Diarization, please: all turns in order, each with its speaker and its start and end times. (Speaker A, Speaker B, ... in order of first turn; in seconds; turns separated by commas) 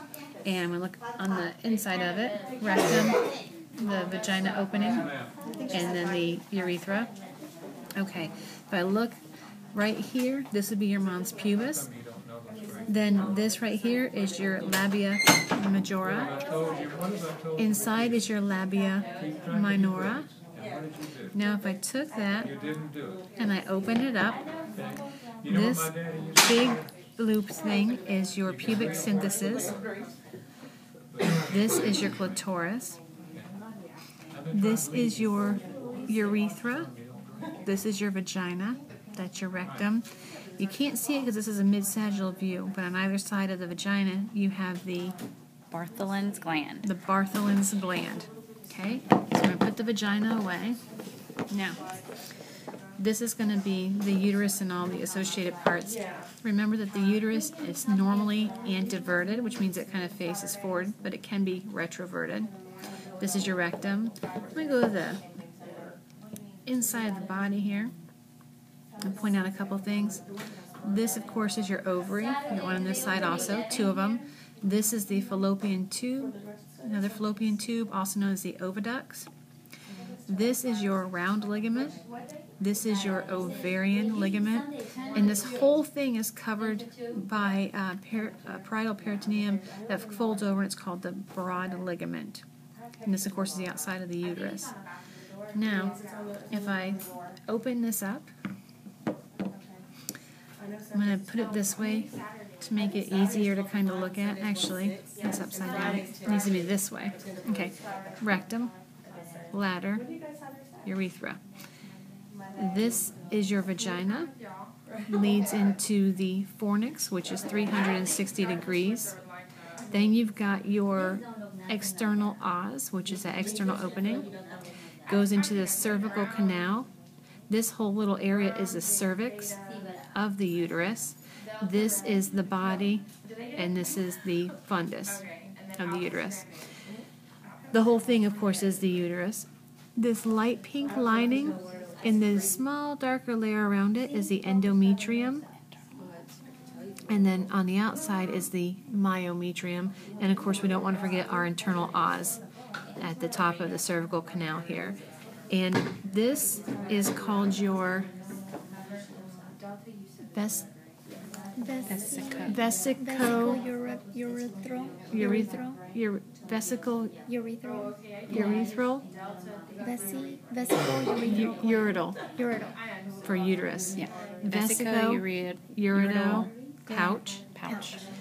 Speaker A: 0.4-3.2, Speaker A: 3.7-5.1, Speaker B: 5.5-5.8, Speaker A: 5.7-7.1, Speaker A: 8.0-9.2, Speaker A: 9.7-11.9, Speaker A: 12.9-16.4, Speaker A: 17.6-20.3, Speaker A: 21.3-22.5, Speaker A: 23.4-24.4, Speaker A: 25.4-29.7, Speaker A: 31.4-33.0, Speaker A: 34.5-36.9, Speaker A: 37.6-40.0, Speaker A: 40.6-45.1, Speaker C: 45.7-46.9, Speaker A: 46.8-50.8, Speaker A: 51.5-51.8, Speaker A: 53.0-62.5, Speaker A: 63.2-65.2, Speaker A: 66.7-67.9, Speaker A: 69.0-70.2, Speaker A: 70.8-79.3, Speaker A: 80.3-82.0, Speaker A: 82.6-92.4, Speaker A: 93.0-94.7, Speaker A: 95.5-96.0, Speaker A: 96.5-98.3, Speaker A: 100.9-108.7, Speaker A: 109.5-110.0, Speaker A: 110.8-111.4, Speaker A: 112.5-114.3, Speaker A: 115.1-119.2, Speaker A: 119.9-124.3, Speaker A: 125.1-126.9, Speaker A: 127.5-129.6, Speaker A: 130.1-136.5, Speaker A: 137.7-145.5, Speaker A: 147.1-152.4, Speaker A: 153.0-155.0, Speaker A: 155.5-158.1, Speaker A: 160.3-160.7, Speaker B: 161.6-165.8, Speaker C: 161.8-162.6, Speaker A: 162.4-163.6, Speaker A: 165.1-167.1, Speaker B: 167.3-168.7, Speaker A: 168.3-169.1, Speaker B: 169.8-172.8, Speaker A: 171.2-172.2, Speaker A: 173.2-177.4, Speaker C: 174.0-176.5, Speaker B: 176.9-177.2, Speaker C: 177.5-178.0